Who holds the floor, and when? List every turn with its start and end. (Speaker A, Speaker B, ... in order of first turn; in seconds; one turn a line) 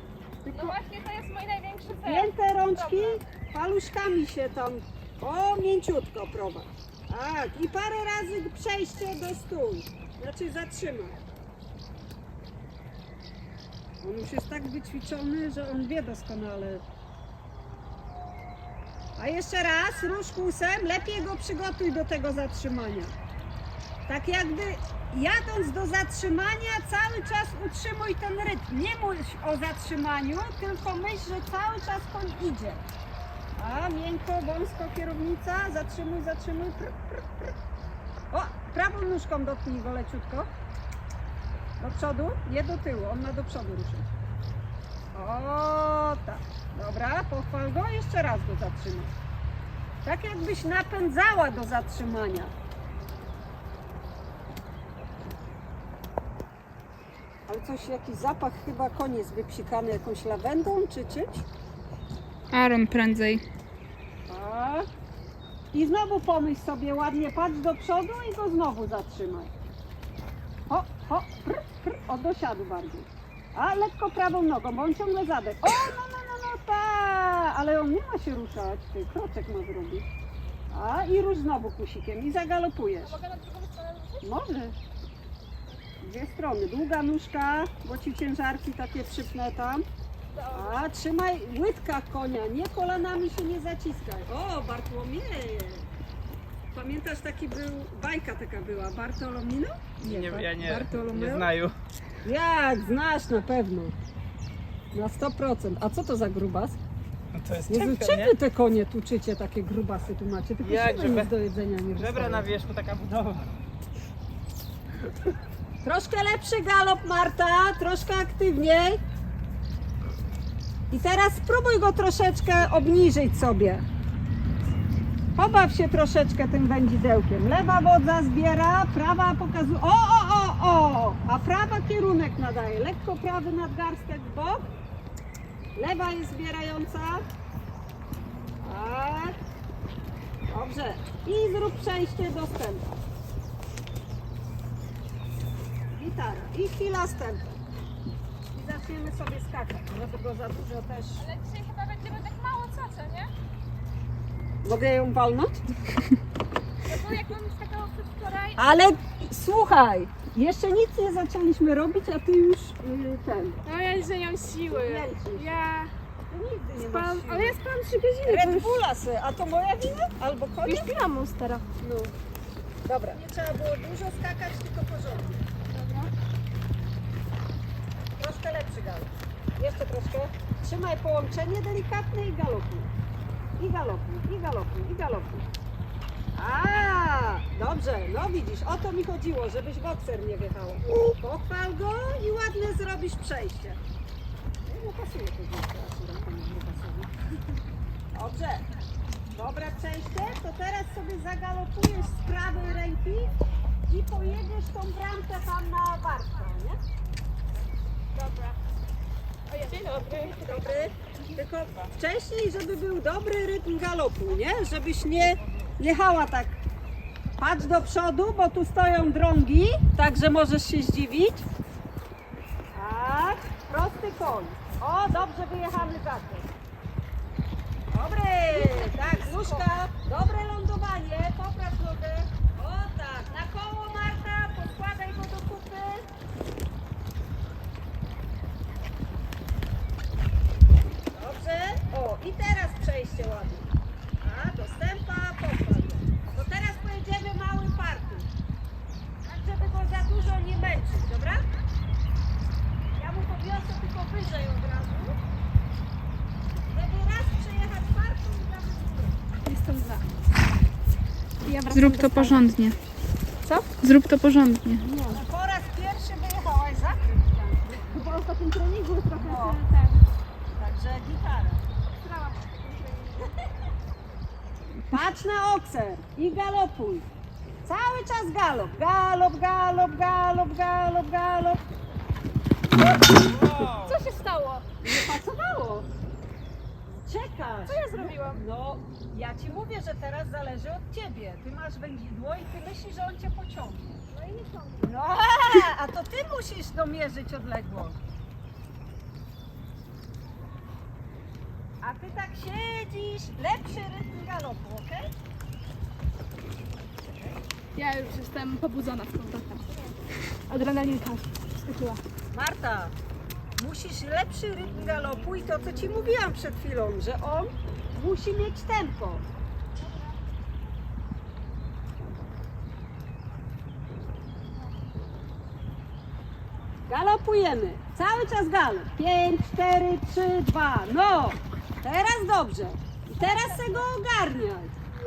Speaker A: 0.4-0.8
Speaker B: 0.6-2.2
Speaker A: 2.0-11.2
Speaker A: 14.0-16.8
Speaker A: 19.2-23.1
Speaker A: 24.1-32.8
Speaker A: 33.6-37.2
Speaker A: 38.3-40.5
Speaker A: 41.8-44.1
Speaker A: 45.1-49.1
Speaker A: 50.0-52.5
Speaker A: 57.5-61.4
Speaker C: 62.5-63.4
Speaker A: 64.3-64.9
Speaker A: 65.7-69.5
Speaker A: 70.7-80.0
Speaker A: 80.7-83.2
Speaker B: 83.1-84.2
Speaker A: 84.2-84.8
Speaker A: 86.0-89.8
Speaker B: 90.3-90.6
Speaker A: 90.5-95.9
Speaker A: 96.7-101.5
Speaker D: 100.0-101.7
Speaker A: 102.2-103.9
Speaker A: 104.9-106.8
Speaker D: 107.3-108.3
Speaker A: 107.7-112.5
Speaker D: 110.6-111.3
Speaker D: 111.9-113.5
Speaker A: 115.8-119.0
Speaker A: 120.9-123.8
Speaker A: 125.3-134.7
Speaker A: 135.8-137.3
Speaker A: 138.6-139.3
Speaker A: 140.5-142.8
Speaker A: 145.9-147.6
Speaker A: 148.5-151.2
Speaker B: 151.3-153.3
Speaker A: 154.6-155.6
Speaker B: 156.9-158.6
Speaker A: 158.6-163.6
Speaker B: 163.7-165.9
Speaker A: 164.7-165.5
Speaker A: 166.3-167.6
Speaker B: 166.8-168.7
Speaker A: 168.3-171.0
Speaker B: 170.6-171.6
Speaker A: 171.8-172.1
Speaker A: 172.8-175.5
Speaker A: 178.2-182.9
Speaker A: 183.6-185.5
Speaker A: 186.3-193.8
Speaker A: 194.7-197.1
Speaker A: 198.1-198.7
Speaker A: 199.3-203.3
Speaker A: 203.9-206.8
Speaker B: 209.5-210.3
Speaker A: 210.1-216.6
Speaker A: 217.4-221.5
Speaker A: 222.7-226.5
Speaker A: 227.9-236.1
Speaker A: 241.1-248.3
Speaker A: 249.2-251.5
Speaker A: 252.9-255.2
Speaker A: 256.7-259.2
Speaker B: 259.4-260.0
Speaker B: 261.4-262.4
Speaker C: 261.7-262.8
Speaker C: 263.8-264.8
Speaker B: 264.8-265.1
Speaker A: 265.1-268.0
Speaker B: 268.2-269.8
Speaker A: 269.1-269.6
Speaker A: 270.5-271.6
Speaker B: 272.0-273.2
Speaker A: 274.9-277.1
Speaker A: 277.6-281.6
Speaker A: 282.7-283.6
Speaker D: 283.3-283.9
Speaker B: 283.9-284.6
Speaker A: 284.8-285.9
Speaker A: 286.9-294.0
Speaker B: 287.7-288.4
Speaker B: 294.1-294.8
Speaker A: 294.8-298.0
Speaker A: 301.8-305.1
Speaker B: 307.8-309.6
Speaker B: 310.5-312.0
Speaker A: 312.3-312.9
Speaker A: 313.6-319.2
Speaker A: 326.9-334.7